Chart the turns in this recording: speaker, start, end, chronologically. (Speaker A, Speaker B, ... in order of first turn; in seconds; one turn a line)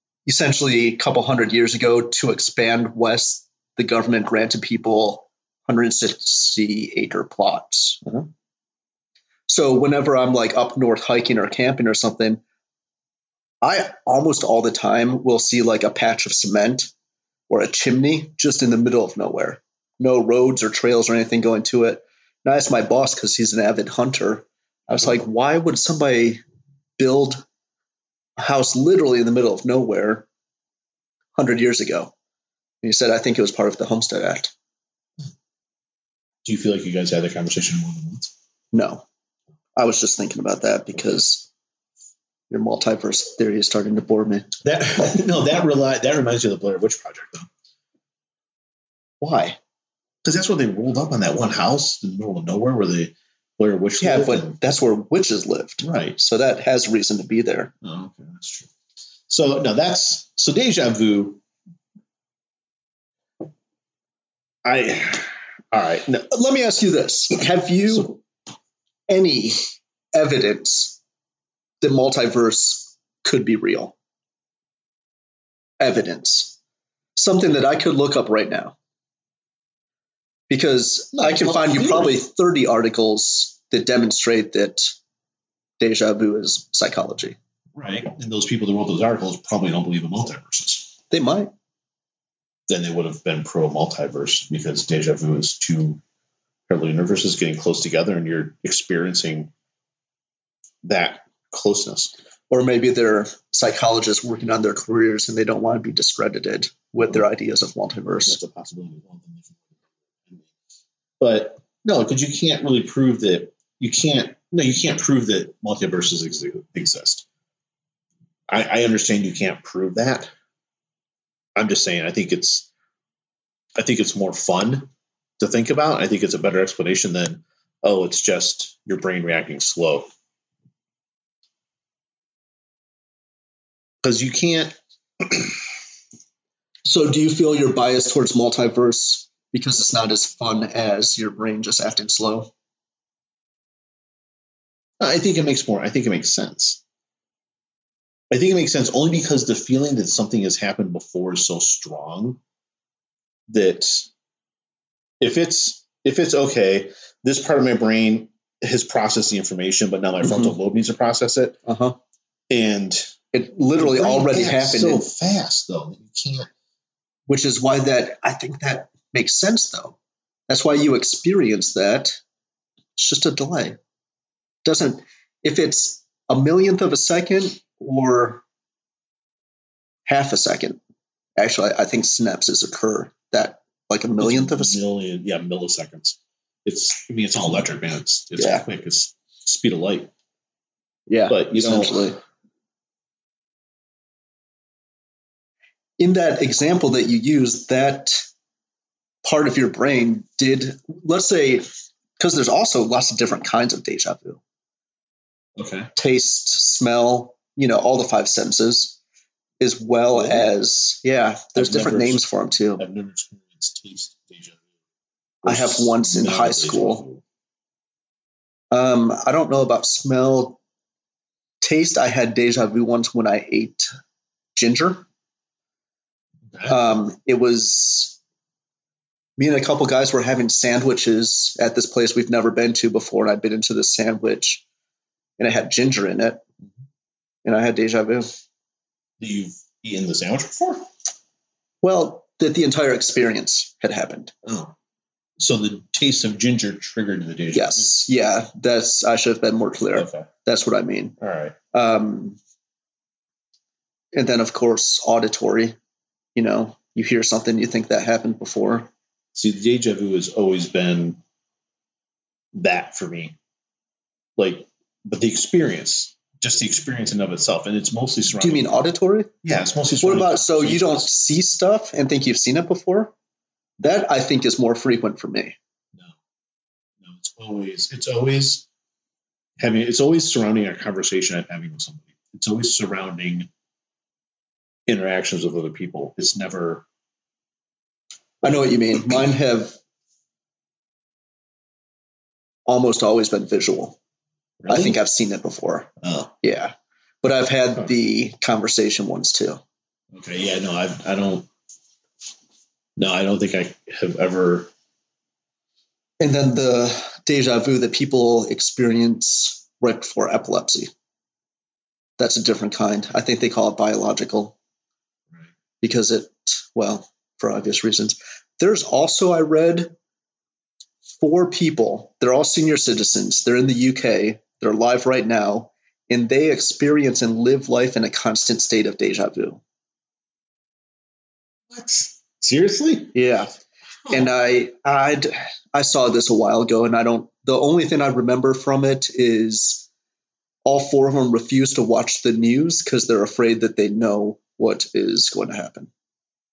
Speaker A: 0.2-8.2
Speaker A: 9.5-12.4
Speaker A: 13.6-16.9
Speaker A: 17.5-26.4
Speaker A: 27.0-27.4
Speaker A: 28.4-30.3
Speaker A: 31.4-32.1
Speaker A: 32.8-34.5
Speaker B: 36.4-38.3
Speaker A: 38.7-39.0
Speaker A: 39.8-41.5
Speaker A: 42.5-44.5
Speaker B: 44.6-47.5
Speaker A: 49.2-49.6
Speaker B: 50.2-54.6
Speaker A: 54.0-57.7
Speaker B: 55.8-56.2
Speaker B: 57.8-58.7
Speaker B: 59.3-61.4
Speaker B: 64.6-66.3
Speaker A: 66.3-68.2
Speaker A: 69.1-71.0
Speaker A: 71.8-73.9
Speaker A: 75.8-76.6
Speaker A: 77.2-78.8
Speaker A: 80.5-84.9
Speaker B: 81.1-82.2
Speaker A: 85.8-87.4
Speaker B: 87.7-90.9
Speaker A: 91.1-91.5
Speaker B: 92.7-96.0
Speaker B: 96.7-99.5
Speaker B: 100.8-102.1
Speaker A: 102.5-108.4
Speaker B: 108.2-109.7
Speaker B: 111.2-117.2
Speaker B: 118.5-120.3
Speaker B: 121.5-122.7
Speaker B: 123.8-130.1
Speaker B: 134.0-135.6
Speaker A: 136.8-142.5
Speaker B: 145.0-146.8
Speaker B: 148.3-152.4
Speaker B: 153.5-154.1
Speaker B: 155.2-161.6
Speaker A: 160.2-160.5
Speaker A: 161.7-162.0
Speaker B: 162.5-163.1
Speaker A: 163.3-165.0
Speaker B: 163.8-166.5
Speaker A: 167.3-170.0
Speaker A: 170.5-172.2
Speaker A: 172.9-173.8
Speaker A: 174.6-178.4
Speaker A: 180.1-180.8
Speaker A: 181.4-184.8
Speaker B: 184.2-190.1
Speaker A: 188.4-188.6
Speaker A: 191.1-192.2
Speaker B: 191.3-192.1
Speaker A: 196.0-198.2
Speaker A: 199.2-204.4
Speaker B: 205.6-205.9
Speaker A: 205.9-209.0
Speaker A: 209.6-212.8
Speaker B: 210.1-210.5
Speaker B: 211.6-212.2
Speaker B: 212.8-214.6
Speaker B: 215.4-217.2
Speaker A: 215.4-217.0
Speaker A: 218.7-220.6
Speaker A: 221.6-223.9
Speaker A: 224.5-225.0
Speaker A: 226.7-228.2
Speaker A: 229.4-234.6
Speaker A: 235.4-236.4
Speaker A: 237.4-238.3
Speaker B: 239.2-240.9
Speaker A: 241.8-244.3
Speaker B: 244.4-244.7
Speaker B: 245.4-248.0
Speaker A: 247.5-251.2
Speaker B: 249.9-250.3
Speaker B: 251.2-251.6
Speaker A: 251.7-252.4
Speaker A: 254.1-255.8
Speaker A: 256.4-258.9
Speaker B: 259.3-261.2
Speaker B: 262.5-263.4
Speaker B: 264.4-268.8
Speaker A: 268.4-269.3
Speaker B: 269.4-271.1
Speaker A: 270.0-273.1
Speaker A: 273.8-275.6
Speaker B: 277.0-278.7
Speaker B: 279.6-283.5
Speaker B: 284.9-286.8
Speaker A: 288.4-289.8
Speaker A: 292.7-294.0
Speaker B: 294.6-295.0
Speaker A: 294.7-295.9
Speaker B: 296.0-296.3
Speaker A: 296.4-299.6
Speaker B: 300.1-301.5
Speaker B: 303.0-304.7
Speaker A: 306.2-310.9
Speaker A: 312.2-314.6
Speaker A: 315.8-319.9
Speaker A: 321.2-329.6
Speaker B: 331.7-333.1
Speaker A: 333.1-333.5
Speaker A: 334.1-339.9
Speaker A: 340.6-345.9